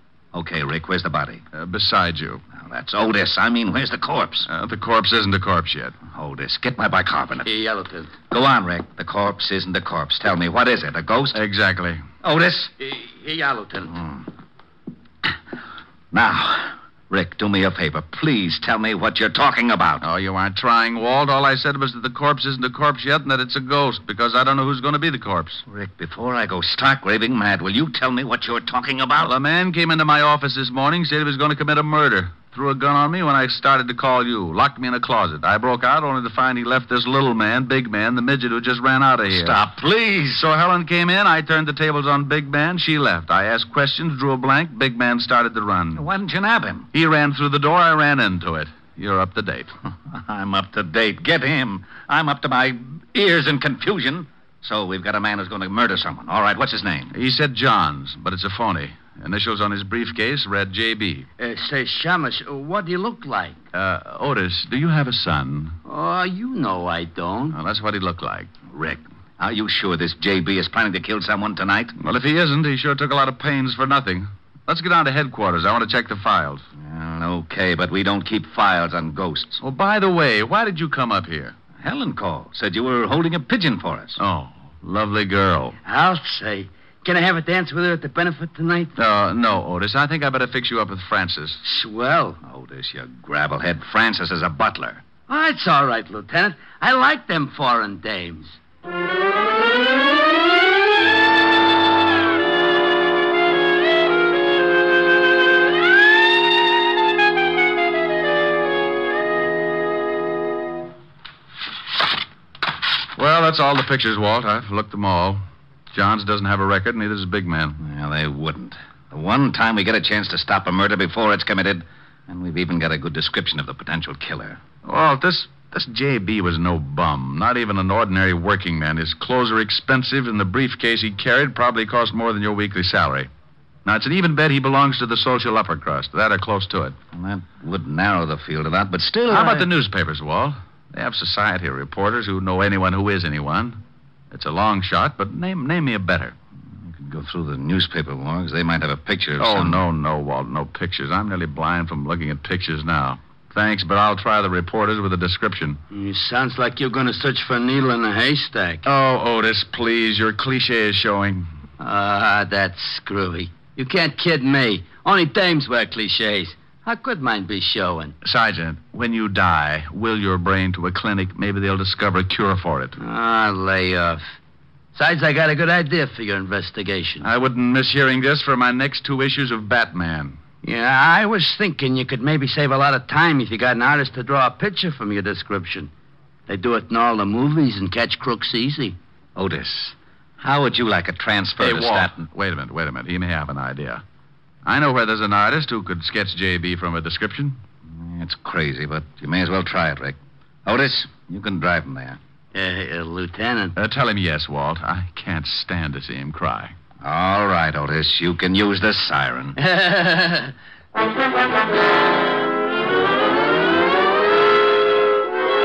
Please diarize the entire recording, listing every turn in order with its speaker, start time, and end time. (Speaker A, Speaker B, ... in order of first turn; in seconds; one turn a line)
Speaker A: 0.3-1.4
Speaker B: 1.5-2.4
Speaker A: 2.5-4.5
Speaker B: 4.5-5.9
Speaker A: 6.1-7.5
Speaker C: 7.5-8.1
Speaker A: 8.3-11.4
Speaker B: 11.3-12.0
Speaker A: 12.2-12.7
Speaker C: 12.8-13.9
Speaker A: 16.1-20.0
Speaker B: 20.0-25.6
Speaker A: 25.6-29.3
Speaker B: 29.2-39.6
Speaker A: 39.3-40.4
Speaker B: 40.3-46.1
Speaker A: 45.9-46.9
Speaker B: 46.9-49.7
Speaker A: 50.1-57.1
Speaker B: 57.1-61.3
Speaker C: 61.4-63.6
Speaker B: 63.7-65.8
Speaker C: 65.8-67.5
Speaker B: 67.5-68.5
Speaker A: 68.7-71.9
Speaker B: 72.0-76.6
Speaker A: 76.8-79.6
Speaker B: 79.6-81.5
Speaker A: 81.8-84.2
Speaker B: 84.2-85.8
Speaker C: 85.8-88.9
Speaker B: 89.0-91.6
Speaker C: 91.6-92.4
Speaker A: 92.4-95.0
Speaker C: 95.3-98.5
Speaker B: 113.2-117.8
Speaker A: 117.8-124.6
Speaker B: 124.8-133.3
Speaker B: 133.8-137.0
Speaker A: 137.1-139.7
Speaker B: 139.3-143.8
Speaker B: 144.3-146.3
Speaker A: 146.8-149.8
Speaker B: 149.4-155.8
Speaker C: 155.9-158.8
Speaker B: 158.8-161.5
Speaker C: 161.8-168.1
Speaker B: 168.2-173.0
Speaker C: 173.0-174.2
Speaker C: 174.9-177.2
Speaker B: 177.2-180.4
Speaker C: 180.6-185.9
Speaker C: 186.5-188.9
Speaker A: 189.3-192.1
Speaker B: 191.6-194.0
Speaker B: 194.6-197.6
Speaker A: 197.8-202.2
Speaker C: 202.5-203.7
Speaker B: 203.8-206.7
Speaker A: 207.0-209.6
Speaker C: 209.6-210.5